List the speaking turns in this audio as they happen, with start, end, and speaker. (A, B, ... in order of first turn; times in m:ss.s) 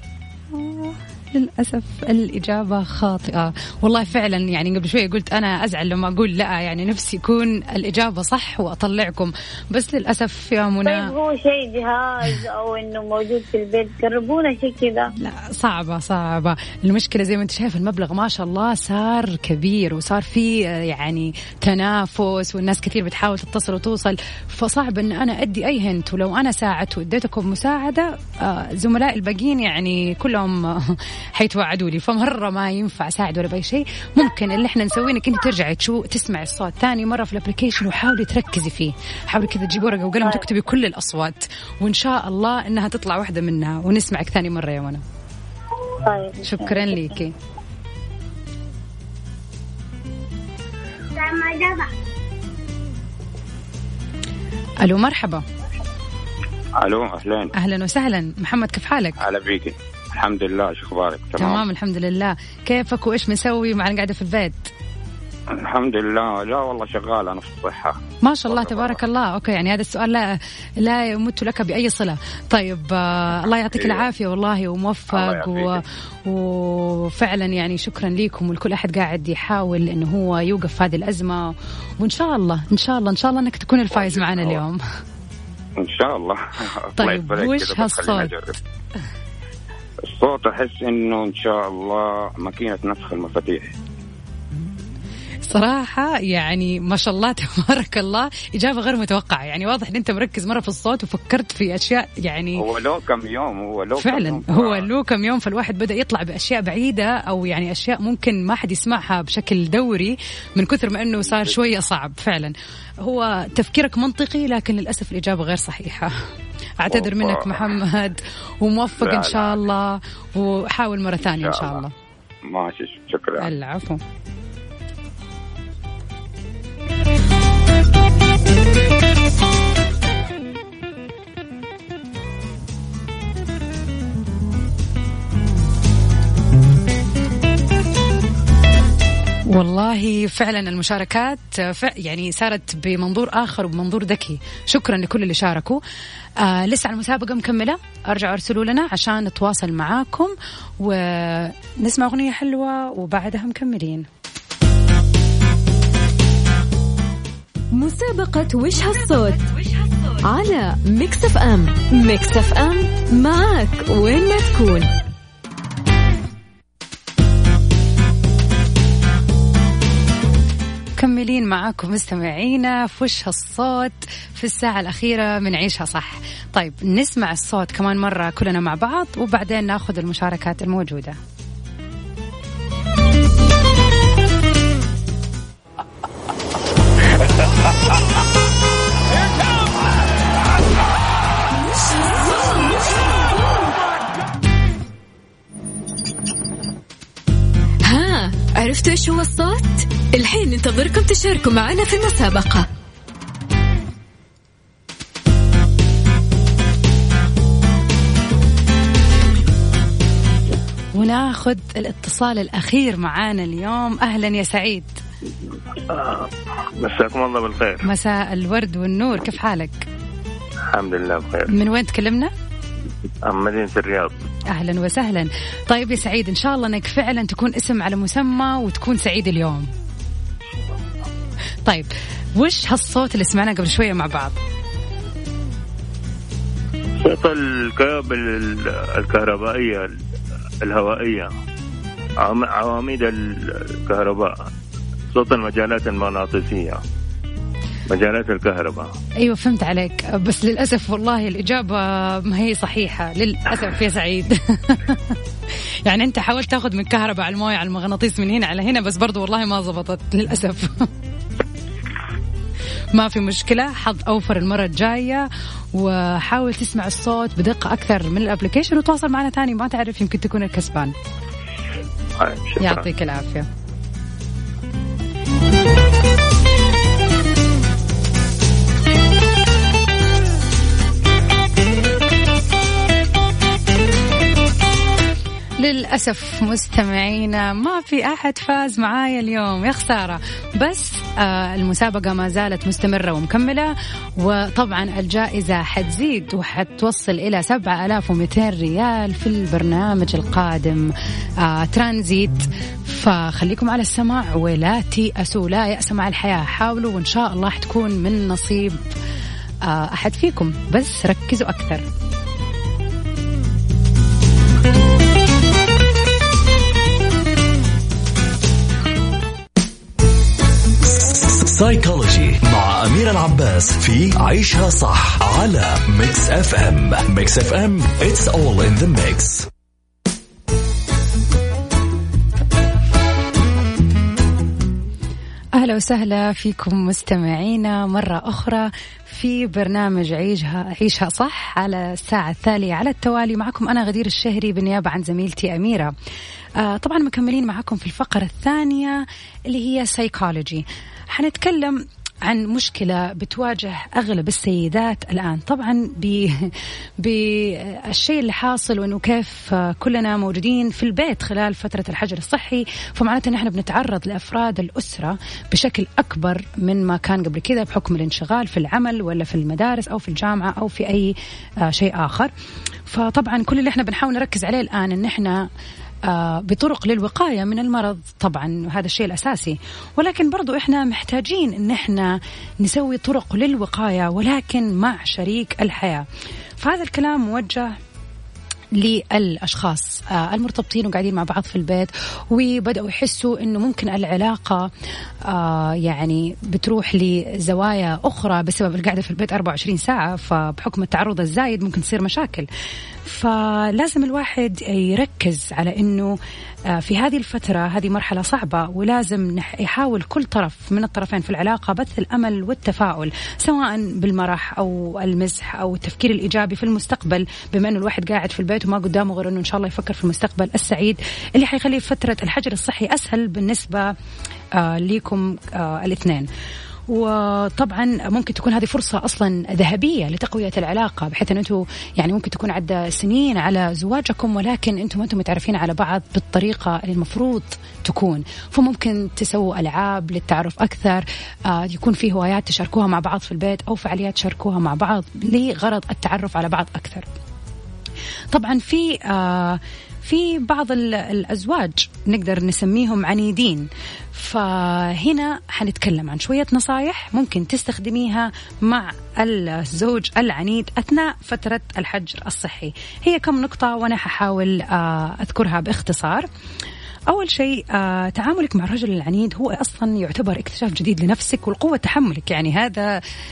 0:00.5-0:11.1 A
0:10.8-0:15.1 B
0:15.2-0:45.0 A
0:46.0-0:47.2 B
0:46.4-0:47.3 A
0:51.2-0:51.9 B
0:54.8-0:55.4 A
0:56.8-0:57.5 C
0:57.5-0:59.2 A
0:59.2-1:01.6 C
1:01.4-1:04.7 A
1:05.5-1:09.0 C
1:08.2-1:24.8 A
1:13.8-1:14.1 C
1:15.1-1:15.8 C
1:23.9-1:24.6 C
1:25.8-1:28.6 C
1:27.0-1:28.3 A
1:30.0-1:33.7 C
1:35.4-1:42.6 A
1:42.6-1:44.9 C
1:44.0-1:56.1 A
1:51.2-1:51.6 C
1:56.8-2:01.9 A
1:56.9-1:57.7 C
1:58.9-1:59.7 C
2:01.3-2:01.8 C
2:02.4-2:03.5 C
2:03.4-2:04.0 A
2:19.5-2:25.8 A
2:26.4-2:34.1 A
2:37.7-2:44.9 D
2:51.0-3:01.2 A
3:17.8-3:22.7 D
3:30.9-3:35.0 A
3:35.9-3:37.9 E
3:37.8-3:39.8 A
3:40.7-3:41.5 E
3:41.5-3:42.3 A
3:43.2-3:44.1 E
3:44.5-3:49.7 A
3:51.6-3:54.3 A
3:57.0-4:00.0 E
4:00.6-4:01.3 E
4:02.2-4:04.4 E
4:05.1-4:06.8 E
4:07.9-4:08.9 E
4:09.2-4:15.2 A
4:15.8-4:20.9 A
4:22.9-4:30.9 A
4:32.2-4:32.9 E
4:32.6-4:33.5 A
4:45.6-5:08.8 A
5:09.6-5:11.8 A
5:21.0-5:29.5 F
5:35.6-5:45.9 A
5:46.6-6:12.3 A
6:12.9-6:15.4 A
6:16.1-6:26.0 A
6:26.6-6:27.7 A
6:28.8-6:34.7 A
6:35.3-6:42.5 A
6:43.0-6:46.1 A
6:46.7-7:03.9 A
7:04.6-7:06.3 A
7:06.9-7:27.1 A
7:28.3-7:46.2 A
7:47.1-7:52.9 A